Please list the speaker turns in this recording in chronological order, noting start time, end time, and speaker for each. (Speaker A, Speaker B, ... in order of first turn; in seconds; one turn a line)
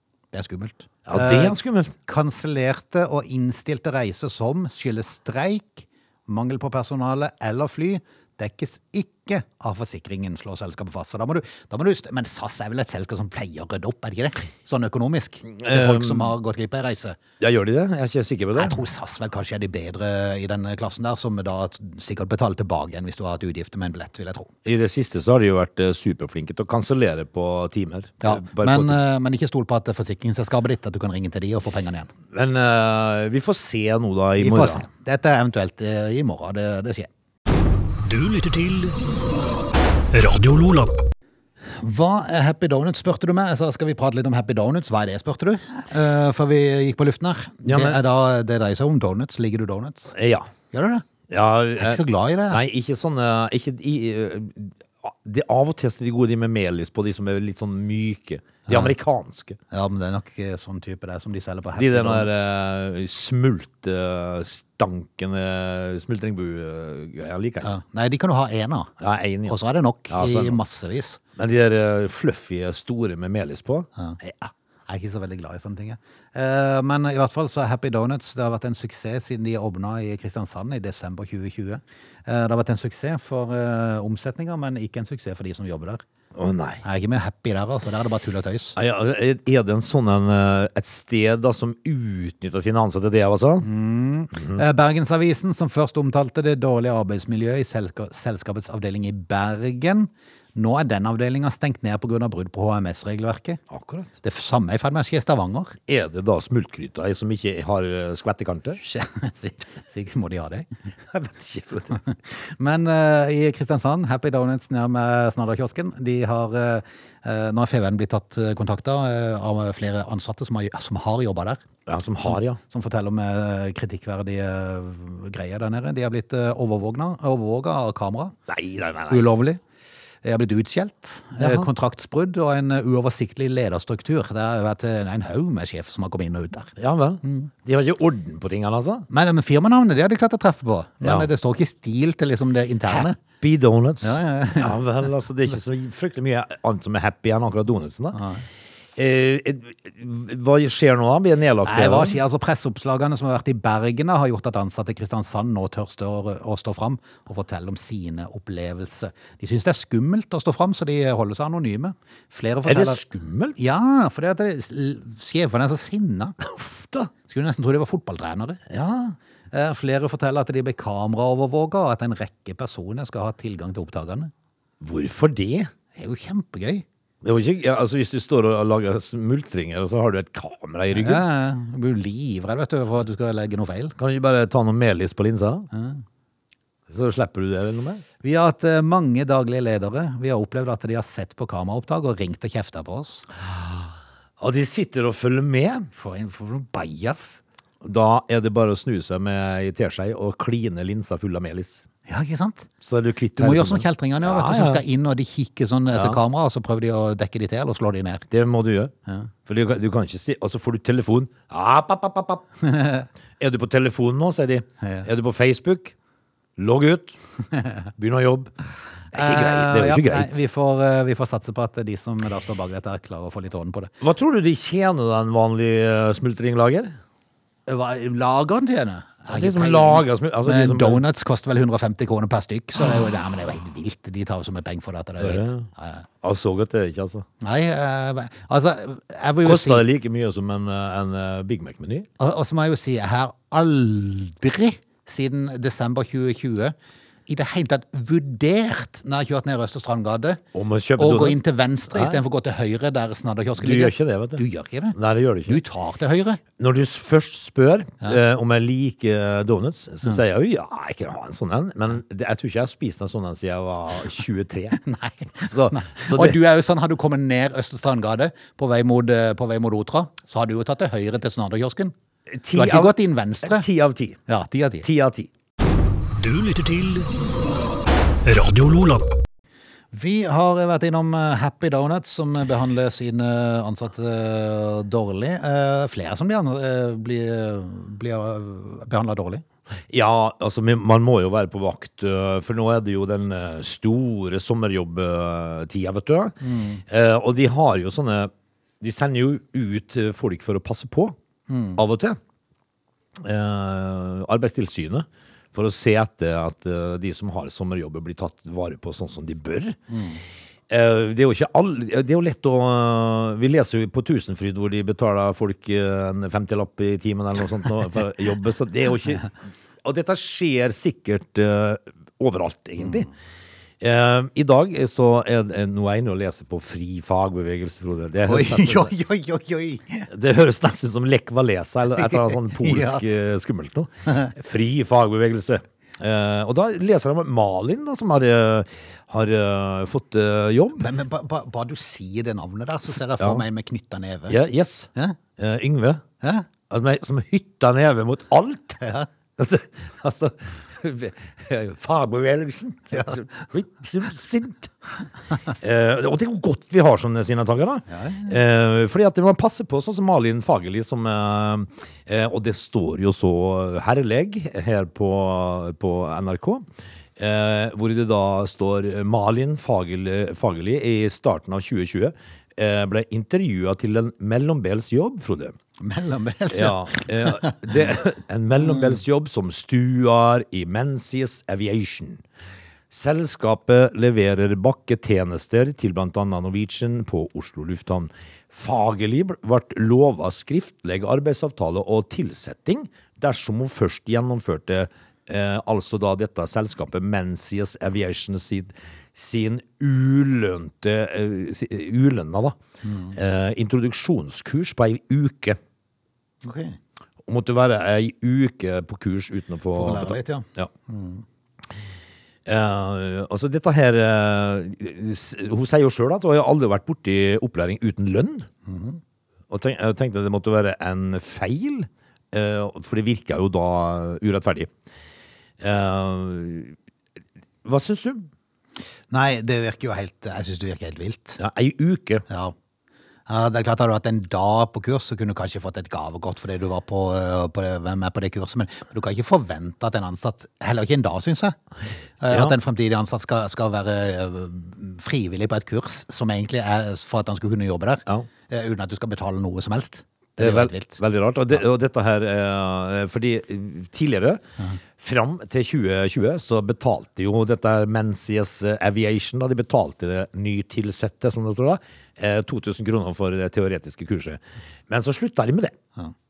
Speaker A: 0.3-17.2
Speaker B: 1.1-1.9
Speaker B: 15.5-16.3
Speaker B: 17.4-18.8
Speaker A: 18.6-24.5
Speaker B: 24.6-29.0
Speaker A: 28.2-32.1
Speaker B: 32.3-34.8
Speaker A: 34.4-37.1
Speaker C: 38.0-39.0
Speaker C: 40.1-41.0
Speaker A: 41.8-50.1
Speaker B: 47.6-48.0
Speaker B: 50.1-50.5
Speaker A: 50.7-51.0
Speaker B: 51.3-59.6
Speaker A: 51.8-52.6
Speaker A: 58.6-58.9
Speaker A: 59.7-62.4
Speaker B: 61.8-67.7
Speaker A: 67.6-68.9
Speaker B: 69.0-69.6
Speaker A: 69.5-71.2
Speaker B: 70.1-70.6
Speaker B: 71.3-74.5
Speaker A: 74.9-86.0
Speaker B: 86.3-86.8
Speaker A: 86.8-88.8
Speaker B: 88.8-93.7
Speaker A: 93.6-103.6
Speaker B: 103.7-104.1
Speaker A: 104.2-105.8
Speaker B: 105.9-108.8
Speaker A: 108.8-110.7
Speaker B: 111.1-112.0
Speaker A: 112.0-121.6
Speaker B: 121.8-122.6
Speaker A: 122.2-128.3
Speaker B: 128.5-129.2
Speaker A: 129.1-129.6
Speaker A: 130.2-136.7
Speaker B: 131.4-131.7
Speaker B: 136.8-139.1
Speaker A: 137.2-137.5
Speaker A: 139.1-143.2
Speaker B: 141.0-141.3
Speaker B: 142.9-148.2
Speaker A: 144.0-144.8
Speaker A: 148.1-148.4
Speaker B: 148.9-152.2
Speaker A: 151.6-163.0
Speaker B: 162.6-163.6
Speaker A: 163.6-168.6
Speaker B: 168.7-169.2
Speaker A: 169.5-174.3
Speaker B: 174.8-175.7
Speaker A: 175.9-176.8
Speaker B: 177.2-181.2
Speaker A: 180.9-183.9
Speaker B: 184.0-185.7
Speaker A: 185.7-186.0
Speaker B: 186.9-188.0
Speaker A: 188.2-193.2
Speaker B: 193.3-195.9
Speaker A: 195.9-197.4
Speaker B: 197.8-201.8
Speaker A: 202.1-202.7
Speaker B: 202.8-204.8
Speaker A: 203.4-208.2
Speaker B: 205.9-206.2
Speaker B: 208.3-208.9
Speaker B: 209.4-212.4
Speaker A: 212.6-213.1
Speaker B: 213.4-215.9
Speaker A: 214.8-215.1
Speaker B: 216.6-217.1
Speaker B: 218.0-218.5
Speaker B: 219.1-220.4
Speaker A: 219.1-223.9
Speaker B: 224.0-227.0
Speaker A: 227.7-236.0
Speaker B: 229.3-231.0
Speaker B: 235.2-235.7
Speaker B: 236.2-237.2
Speaker A: 237.4-239.8
Speaker B: 239.4-242.1
Speaker A: 242.2-246.7
Speaker A: 247.3-250.4
Speaker B: 250.5-251.4
Speaker A: 251.0-256.4
Speaker B: 251.9-252.2
Speaker B: 253.6-254.4
Speaker B: 254.9-255.6
Speaker B: 256.6-264.8
Speaker A: 264.8-271.9
Speaker B: 265.4-266.4
Speaker B: 272.3-274.2
Speaker A: 272.5-273.6
Speaker A: 274.3-274.9
Speaker B: 274.8-275.3
Speaker C: 276.1-277.1
Speaker C: 278.2-279.1
Speaker A: 279.9-289.4
Speaker B: 289.9-301.1
Speaker A: 296.4-296.8
Speaker A: 301.5-301.8
Speaker B: 301.8-302.2
Speaker B: 303.1-309.8
Speaker A: 309.9-310.2
Speaker B: 310.7-323.1
Speaker B: 323.8-328.9
Speaker A: 328.3-330.1
Speaker B: 330.1-340.9
Speaker A: 332.0-333.0
Speaker A: 340.8-344.4
Speaker B: 344.3-346.0
Speaker A: 346.2-346.5
Speaker B: 346.7-348.8
Speaker A: 348.8-349.1
Speaker B: 349.4-354.7
Speaker B: 355.5-375.5
Speaker A: 357.9-358.4
Speaker A: 375.8-377.6
Speaker B: 376.5-382.2
Speaker A: 378.6-379.0
Speaker B: 382.9-402.6
Speaker A: 402.8-403.1
Speaker B: 403.1-405.6
Speaker A: 406.4-406.8
Speaker B: 407.2-410.7
Speaker A: 409.7-411.2
Speaker B: 412.4-418.5
Speaker A: 418.6-419.0
Speaker B: 419.5-424.7
Speaker B: 425.6-426.8
Speaker B: 427.6-428.3
Speaker A: 429.1-431.4
Speaker B: 431.4-432.2
Speaker A: 432.3-432.5
Speaker A: 433.3-441.6
Speaker A: 442.2-451.0
Speaker B: 442.3-442.5
Speaker B: 450.4-454.4
Speaker B: 455.0-465.8